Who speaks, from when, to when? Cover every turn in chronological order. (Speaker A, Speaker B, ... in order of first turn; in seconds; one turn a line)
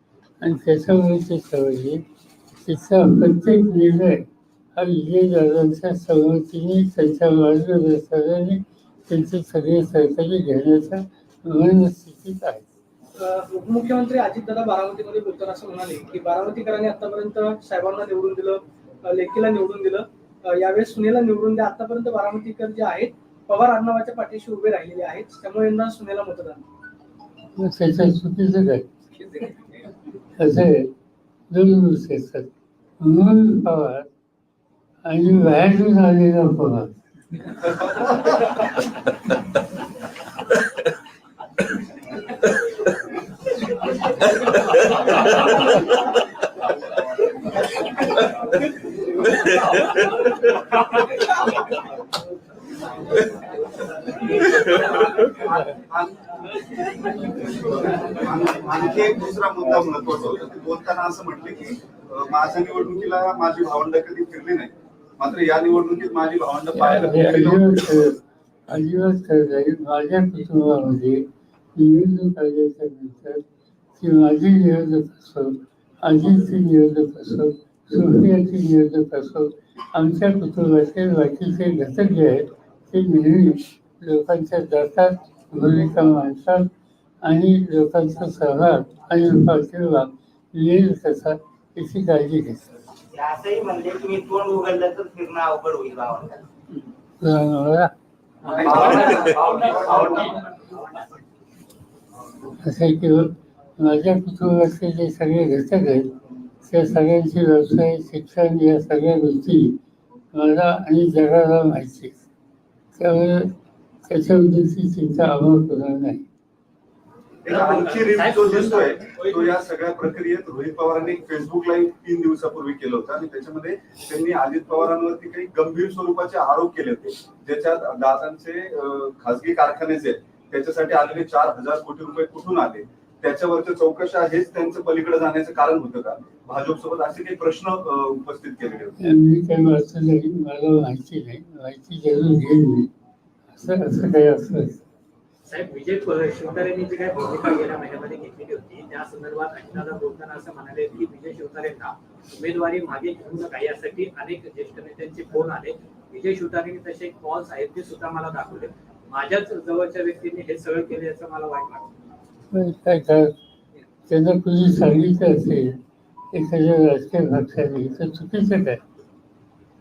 Speaker A: 0.4-2.0
Speaker A: 2.6-4.2
Speaker A: 4.8-12.7
Speaker B: 13.2-26.6
Speaker A: 27.6-28.9
Speaker A: 30.4-30.9
Speaker A: 31.5-32.5
Speaker A: 33.0-34.1
Speaker A: 35.1-37.0
Speaker C: 54.3-68.0
Speaker A: 66.7-68.2
Speaker A: 68.7-71.2
Speaker A: 71.8-73.4
Speaker A: 74.0-86.7
Speaker A: 87.2-92.7
Speaker D: 93.1-96.4
Speaker A: 97.2-97.9
Speaker C: 98.4-100.4
Speaker E: 98.4-100.4
Speaker D: 98.7-100.2
Speaker A: 102.6-106.1
Speaker A: 106.6-109.8
Speaker A: 110.3-112.2
Speaker A: 113.0-113.5
Speaker A: 114.1-116.2
Speaker C: 117.4-138.9
Speaker E: 117.5-119.5
Speaker A: 139.0-142.9
Speaker A: 143.5-144.8
Speaker E: 145.5-161.9
Speaker A: 162.5-163.3
Speaker A: 164.1-165.8
Speaker A: 166.3-168.8